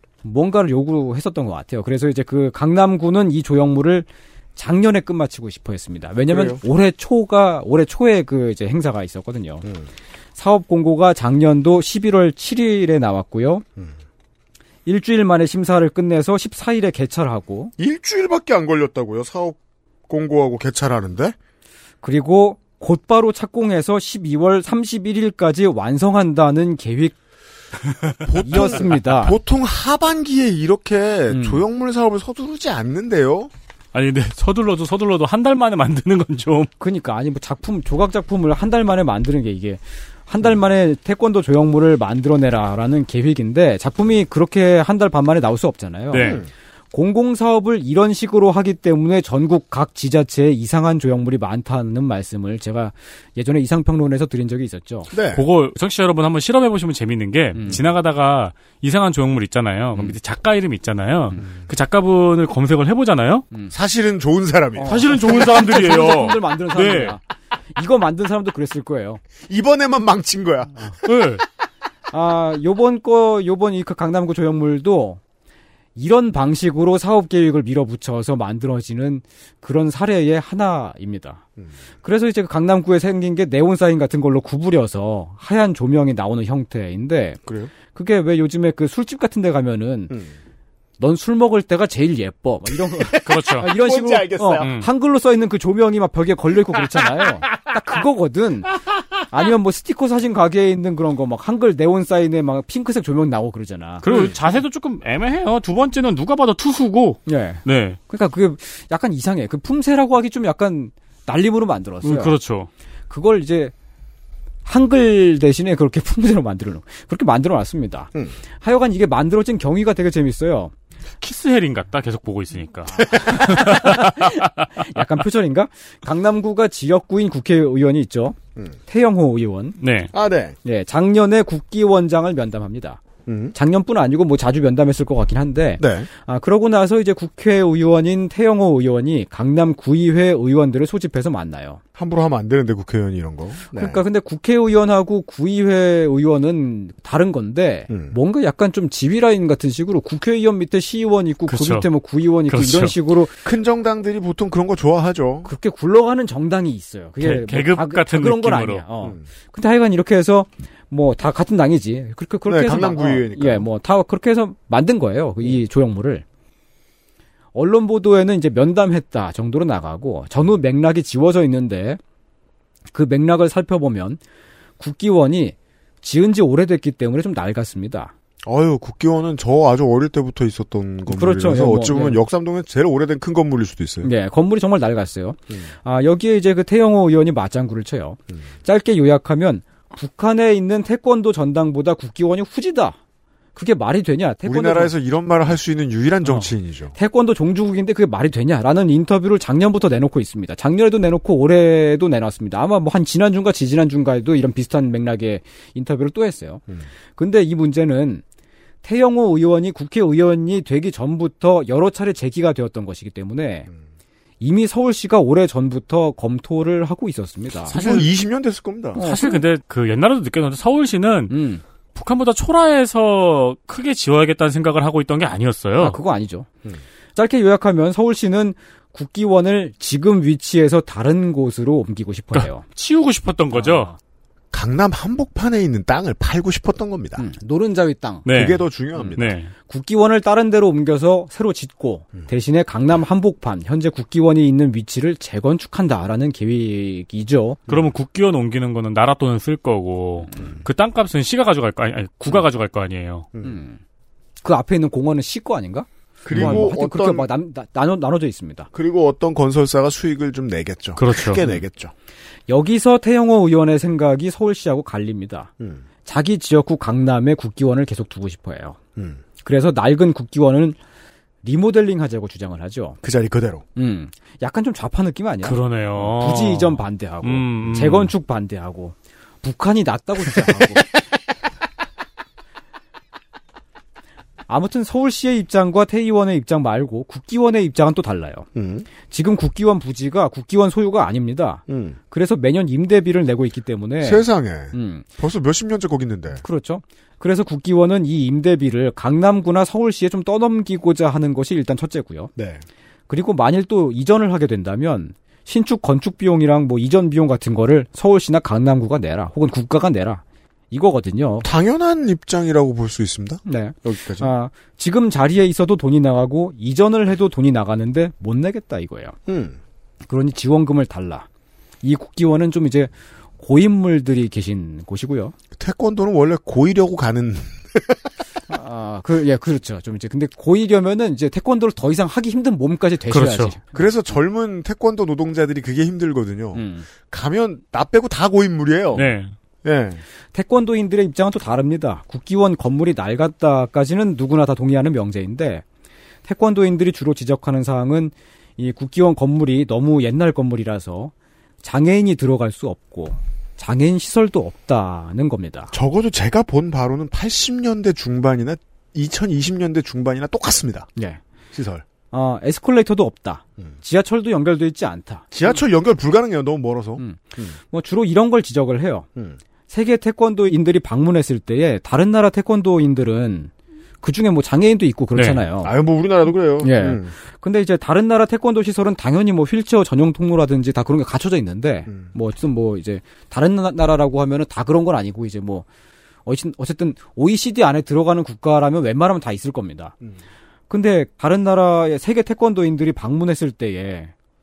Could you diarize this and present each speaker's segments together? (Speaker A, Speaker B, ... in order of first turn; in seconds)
Speaker A: 0.2-9.7, 10.3-13.6, 14.8-17.7, 22.0-27.1, 28.4-29.4, 31.3-31.6, 36.8-46.4, 46.9-55.1, 57.5-57.8, 64.8-67.2, 67.8-69.2, 72.1-75.2, 76.0-81.4, 82.0-90.2, 91.0-98.8, 99.3-104.0, 107.3-112.3, 113.1-113.7, 114.6-120.7, 123.0-129.8, 130.6-133.0, 133.5-141.8, 143.7-153.3, 155.4-166.2, 167.5-172.0, 172.9-174.2, 174.8-178.1, 181.1-182.2, 184.0-193.0, 193.6-194.9, 196.2-206.6, 207.2-208.2, 208.8-213.7, 214.4-217.8, 218.9-219.4, 221.3-221.6, 225.8-226.5, 227.2-232.6, 233.5-234.0, 237.2-238.3, 238.9-247.6, 253.4-253.8, 254.4-258.7, 262.5-265.5, 266.0-268.8, 269.4-270.8, 271.4-273.0, 273.8-280.9, 284.5-288.5, 289.1-295.1, 296.4-302.3, 303.1-311.5, 313.4-319.1, 320.1-321.3, 321.8-325.3, 328.5-333.6, 336.5-336.9, 340.3-345.6, 346.2-351.1, 351.6-355.7, 362.1-365.3, 367.0-369.1, 369.7-373.5, 374.0-375.7, 376.6-385.6, 386.2-389.9, 390.7-394.1
Speaker B: 6.3-6.6, 17.8-21.4, 28.2-33.5, 46.2-46.5, 55.1-55.5, 63.7-65.3, 69.5-71.0, 87.5-87.7, 90.1-90.3, 92.9-94.7, 104.1-104.3, 130.1-130.6, 133.2-133.5, 135.8-136.1, 141.9-144.0, 147.9-148.1, 153.4-155.5, 162.4-163.7, 178.4-184.1, 194.4-196.9, 217.7-219.0, 234.5-237.2, 238.3-239.3, 253.3-253.6, 256.2-257.3, 258.7-261.9, 265.6-265.8, 268.9-269.2, 273.0-273.6, 277.6-277.9, 288.5-288.9, 291.7-292.0, 294.0-296.4, 302.4-302.6, 311.4-314.3, 319.3-319.6, 325.6-328.1, 333.7-339.1, 339.6-340.0, 355.7-360.9, 361.5-361.8, 365.3-367.6, 375.6-377.1
Speaker C: 33.9-36.7, 46.1-46.4, 55.3-63.5, 64.8-67.2, 71.0-71.4, 93.2-93.7, 94.6-94.9, 104.0-108.0, 112.0-112.7, 121.2-124.4, 129.8-130.1, 151.5-151.9, 152.5-152.9, 157.2-158.8, 217.7-218.1, 219.0-221.4, 221.9-226.0, 232.3-233.9, 238.2-239.5, 247.7-253.3, 256.3-256.7, 261.0-261.5, 275.4-278.1, 333.1-333.5, 338.9-339.3, 375.1-375.4